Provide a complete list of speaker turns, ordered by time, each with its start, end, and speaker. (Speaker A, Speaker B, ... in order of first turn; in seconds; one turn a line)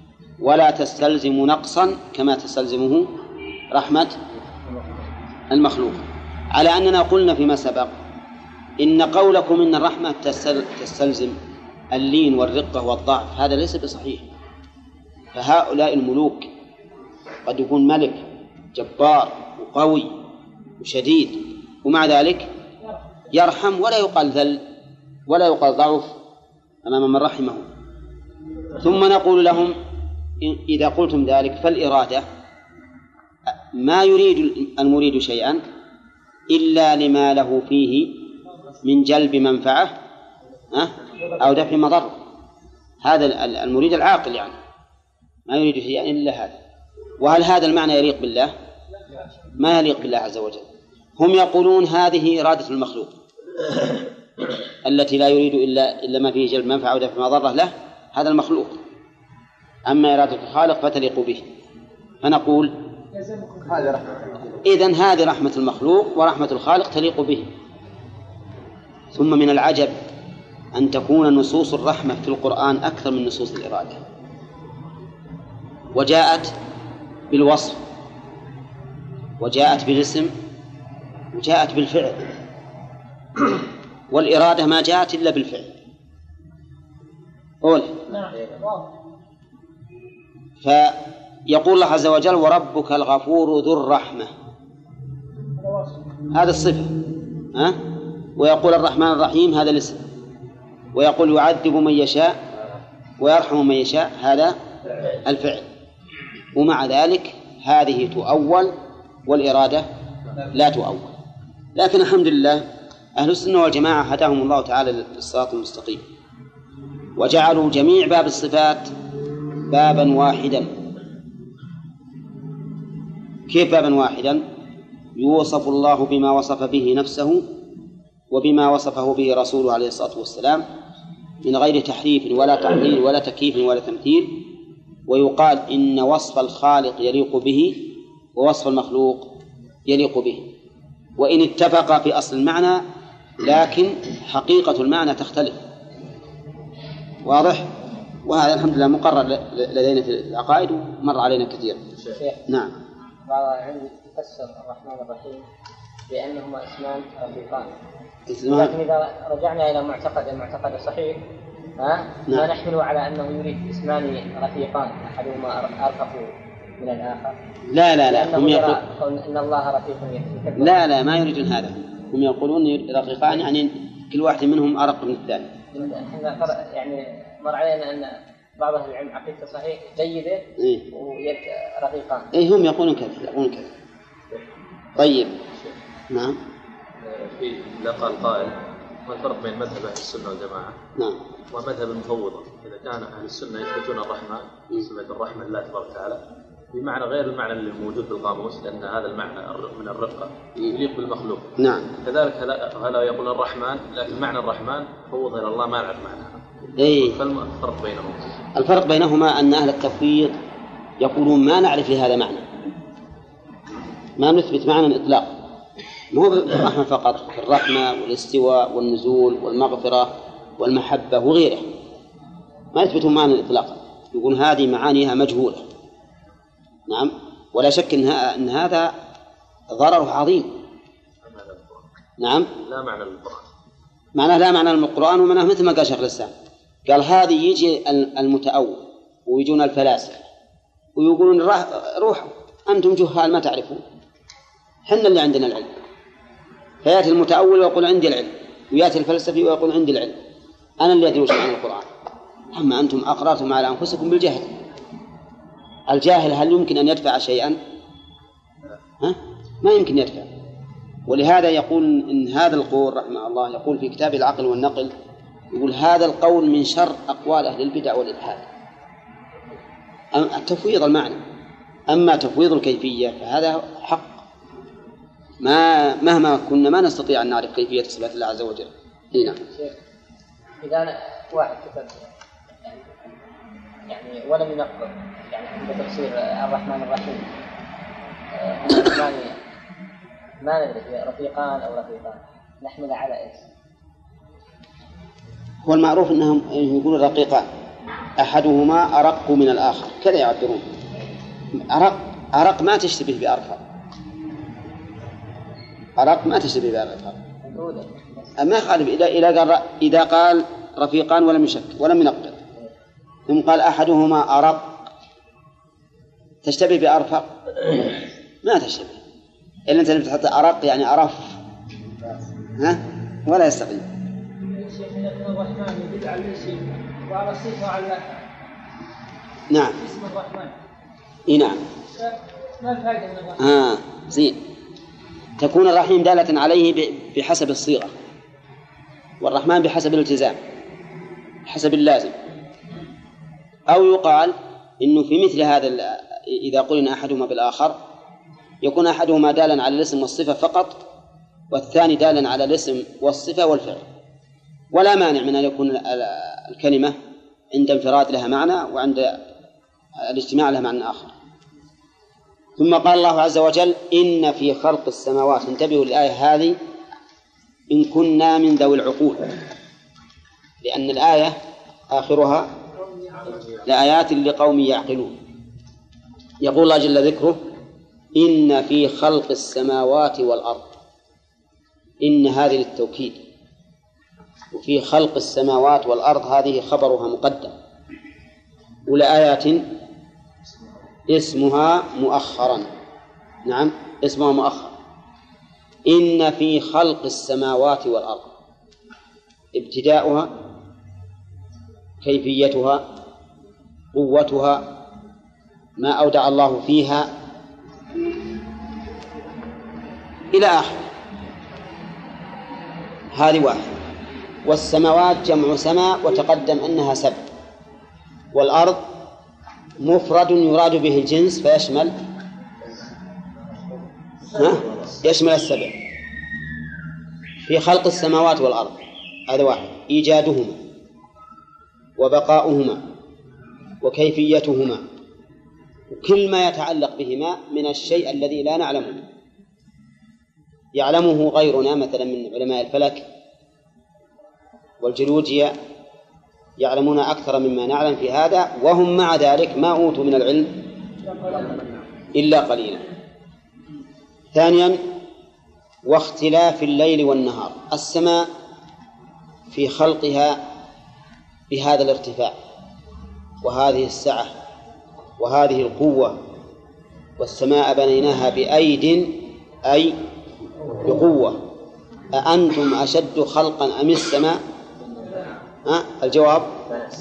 Speaker A: 0.4-3.1
Speaker A: 3.7-4.2
Speaker A: 5.5-7.9
Speaker A: 8.8-11.3
Speaker A: 11.9-14.2
Speaker A: 15.3-16.5
Speaker A: 17.4-20.1
Speaker A: 20.8-22.5
Speaker A: 23.3-24.6
Speaker A: 25.3-26.1
Speaker A: 26.8-27.6
Speaker A: 28.8-29.8
Speaker A: 30.4-32.2
Speaker A: 33.5-35.6
Speaker A: 36.5-38.1
Speaker A: 38.8-39.9
Speaker A: 40.7-42.1
Speaker A: 43.0-44.6
Speaker A: 45.5-46.5
Speaker A: 47.2-48.5
Speaker A: 49.6-50.6
Speaker A: 51.2-53.1
Speaker A: 54.8-58.8
Speaker A: 59.9-61.4
Speaker A: 62.2-62.8
Speaker B: 63.1-64.2
Speaker A: 64.6-67.5
Speaker A: 69.1-69.9
Speaker A: 70.7-74.0
Speaker A: 75.9-76.5
Speaker A: 77.3-77.8
Speaker A: 79.4-80.3
Speaker A: 81.3-82.2
Speaker A: 84.1-85.7
Speaker A: 87.6-88.0
Speaker B: 88.1-88.9
Speaker A: 90.6-94.3
Speaker B: 95.6-96.0
Speaker A: 96.3-96.9
Speaker A: 98.4-100.0
Speaker A: 100.9-102.4
Speaker A: 103.2-104.6
Speaker A: 105.2-105.7
Speaker A: 106.5-108.7
Speaker A: 109.3-109.8
Speaker A: 110.5-111.1
Speaker A: 111.8-112.6
Speaker A: 113.2-116.0
Speaker A: 117.2-118.9
Speaker A: 119.7-120.7
Speaker A: 123.5-124.4
Speaker A: 125.2-127.4
Speaker A: 128.3-130.6
Speaker A: 131.4-134.4
Speaker A: 135.1-139.3
Speaker A: 139.8-140.4
Speaker A: 141.2-142.8
Speaker A: 143.4-145.6
Speaker A: 147.2-147.7
Speaker A: 148.2-151.8
Speaker A: 152.5-152.7
Speaker C: 153.3-155.4
Speaker C: 156.1-157.7
Speaker A: 158.3-158.7
Speaker C: 158.5-161.2
Speaker C: 161.8-167.4
Speaker A: 167.7-168.8
Speaker C: 168.1-170.8
Speaker A: 170.6-175.5
Speaker C: 175.7-182.3
Speaker A: 180.6-180.8
Speaker A: 182.3-183.7
Speaker A: 184.9-185.3
Speaker A: 186.1-186.4
Speaker D: 187.0-190.8
Speaker D: 191.5-196.2
Speaker D: 196.7-208.4
Speaker A: 201.6-201.9
Speaker A: 206.8-207.2
Speaker A: 208.5-210.3
Speaker A: 211.0-212.4
Speaker A: 214.2-215.3
Speaker A: 216.1-221.6
Speaker A: 222.7-225.6
Speaker A: 226.9-228.9
Speaker A: 229.7-230.5
Speaker D: 231.2-231.8
Speaker A: 232.2-232.5
Speaker D: 232.6-233.4
Speaker A: 234.1-236.3
Speaker A: 236.8-240.2
Speaker A: 241.0-243.8
Speaker A: 244.9-245.7
Speaker A: 246.8-250.2
Speaker A: 250.8-251.9
Speaker A: 252.5-254.5
Speaker A: 255.9-257.6
Speaker A: 259.0-260.3
Speaker A: 261.1-264.9
Speaker A: 265.5-268.4
Speaker A: 270.1-271.2
Speaker A: 271.9-274.2
Speaker A: 275.4-279.4
Speaker C: 279.2-279.8
Speaker C: 280.6-282.0
Speaker C: 282.6-283.0
Speaker C: 283.9-287.3
Speaker C: 288.4-289.4
Speaker C: 290.4-293.4
Speaker A: 295.6-297.5
Speaker A: 298.2-300.6
Speaker A: 301.6-303.6
Speaker A: 306.0-307.2
Speaker C: 307.4-307.9
Speaker A: 308.4-312.4
Speaker A: 313.3-314.6
Speaker A: 316.4-319.0
Speaker A: 319.7-321.4
Speaker A: 322.6-323.8
Speaker B: 324.4-328.2
Speaker A: 329.5-329.8
Speaker B: 329.8-330.5
Speaker A: 331.3-331.6
Speaker B: 332.0-333.4
Speaker A: 333.4-334.4
Speaker A: 335.4-337.9
Speaker A: 339.2-340.4
Speaker A: 341.4-342.1
Speaker A: 343.7-347.8
Speaker A: 348.6-350.8
Speaker A: 351.5-353.8
Speaker A: 354.7-357.0
Speaker A: 357.5-359.2
Speaker A: 360.0-361.1
Speaker A: 362.6-366.6
Speaker A: 367.7-369.3
Speaker A: 370.6-371.4
Speaker A: 371.9-372.5
Speaker B: 372.8-373.4
Speaker A: 373.6-375.1
Speaker A: 376.4-377.4
Speaker A: 378.1-380.6
Speaker A: 382.0-383.2
Speaker A: 384.5-387.5
Speaker A: 388.9-389.6
Speaker A: 391.1-392.7
Speaker A: 393.4-394.7
Speaker A: 395.9-398.3
Speaker A: 399.5-400.3
Speaker A: 402.0-402.8
Speaker A: 403.9-404.6
Speaker A: 405.8-407.1
Speaker A: 410.3-410.8
Speaker A: 413.1-413.7
Speaker A: 414.4-417.2
Speaker A: 418.3-418.8
Speaker A: 419.8-421.9
Speaker A: 424.3-425.7
Speaker A: 427.4-428.8
Speaker A: 429.3-430.6
Speaker A: 432.0-432.8
Speaker A: 433.8-434.8
Speaker A: 435.9-439.0
Speaker A: 440.7-443.1
Speaker A: 444.8-445.5
Speaker A: 446.6-450.5
Speaker B: 451.1-451.6
Speaker A: 452.1-452.8
Speaker A: 454.3-454.8
Speaker A: 455.9-458.3
Speaker A: 459.5-460.4
Speaker A: 461.5-462.4
Speaker A: 463.4-464.3
Speaker A: 465.2-466.2
Speaker A: 467.2-469.9
Speaker A: 470.8-471.4
Speaker A: 472.1-474.4
Speaker A: 475.6-476.6